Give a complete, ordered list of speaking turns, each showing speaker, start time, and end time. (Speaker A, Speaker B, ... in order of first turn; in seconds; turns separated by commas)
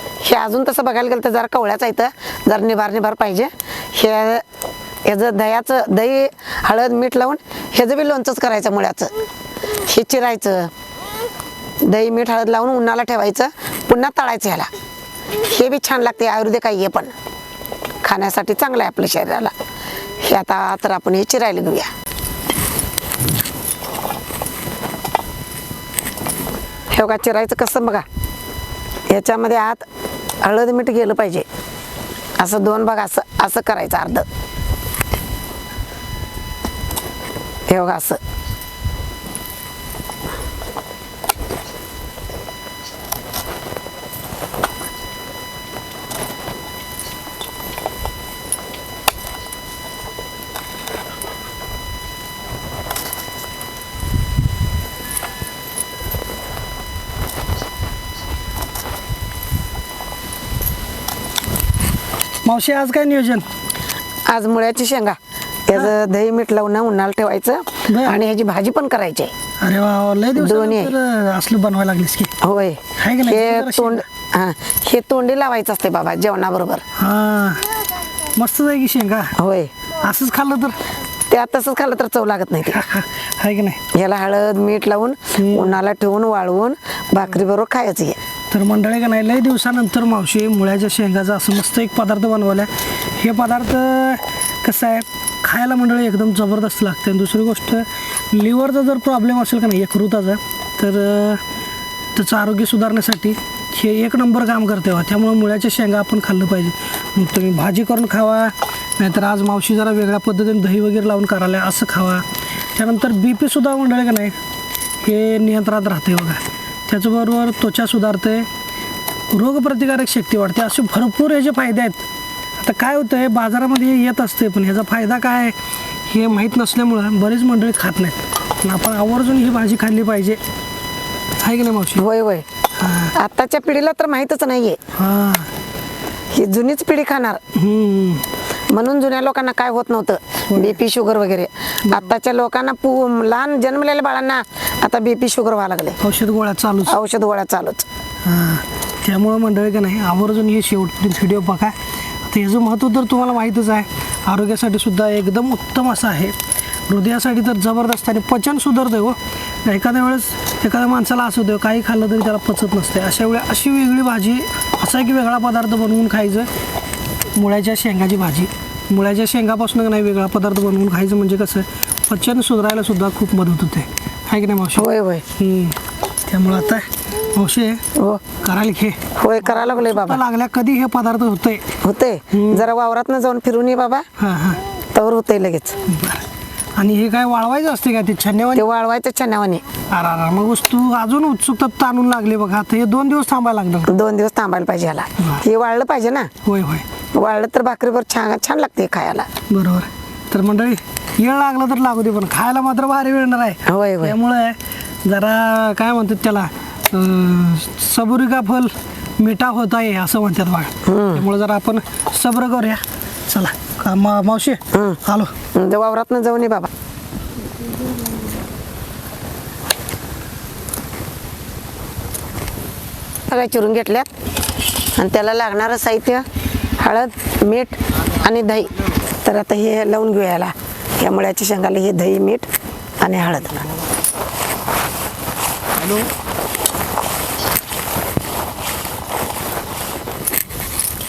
Speaker A: 0.2-4.4, Speaker A: 5.0-9.1, Speaker A: 9.8-10.7, Speaker A: 11.8-14.7, Speaker A: 15.4-17.1, Speaker A: 18.0-19.5, Speaker A: 20.1-21.9, Speaker A: 26.9-28.0, Speaker A: 29.1-29.9, Speaker A: 30.4-31.4, Speaker A: 32.4-34.2, Speaker A: 37.7-38.2, Speaker B: 62.4-63.5, Speaker A: 64.3-69.3, Speaker B: 67.9-68.2, Speaker B: 69.6-72.3, Speaker A: 70.3-70.9, Speaker A: 72.4-76.8, Speaker B: 73.0-74.0, Speaker B: 77.0-77.7, Speaker B: 78.2-79.3, Speaker A: 79.3-79.7, Speaker B: 80.0-80.8, Speaker A: 81.3-82.8, Speaker B: 82.7-83.8, Speaker A: 83.9-88.2, Speaker B: 85.4-85.8, Speaker B: 88.5-101.4, Speaker B: 102.1-112.2, Speaker B: 112.8-114.3, Speaker B: 115.0-118.5, Speaker B: 119.3-122.0, Speaker B: 122.6-125.5, Speaker B: 126.1-130.4, Speaker B: 131.4-132.0, Speaker A: 131.9-132.4, Speaker B: 132.8-133.1, Speaker A: 133.1-134.8, Speaker B: 134.9-135.5, Speaker A: 136.3-137.4, Speaker B: 137.5-138.2, Speaker A: 138.7-146.0, Speaker B: 140.5-140.8, Speaker B: 146.0-147.0, Speaker A: 146.8-147.9, Speaker B: 148.2-156.3, Speaker B: 156.9-166.5, Speaker B: 167.3-177.8, Speaker A: 174.8-175.2, Speaker A: 177.9-178.2, Speaker B: 178.4-181.7, Speaker A: 179.2-180.2, Speaker A: 181.8-184.0, Speaker B: 182.3-182.6, Speaker B: 184.2-184.6, Speaker A: 184.9-185.8, Speaker B: 185.9-186.2, Speaker B: 186.8-188.6, Speaker A: 188.5-189.6, Speaker B: 189.9-193.9, Speaker A: 193.9-196.3, Speaker B: 195.2-195.4, Speaker B: 196.4-196.8, Speaker A: 197.1-199.3, Speaker B: 199.5-215.3, Speaker A: 203.7-204.2, Speaker A: 210.8-211.2, Speaker A: 214.7-215.0, Speaker A: 215.5-216.7, Speaker A: 223.3-224.1, Speaker A: 224.9-226.2, Speaker A: 226.8-232.5, Speaker A: 233.0-233.7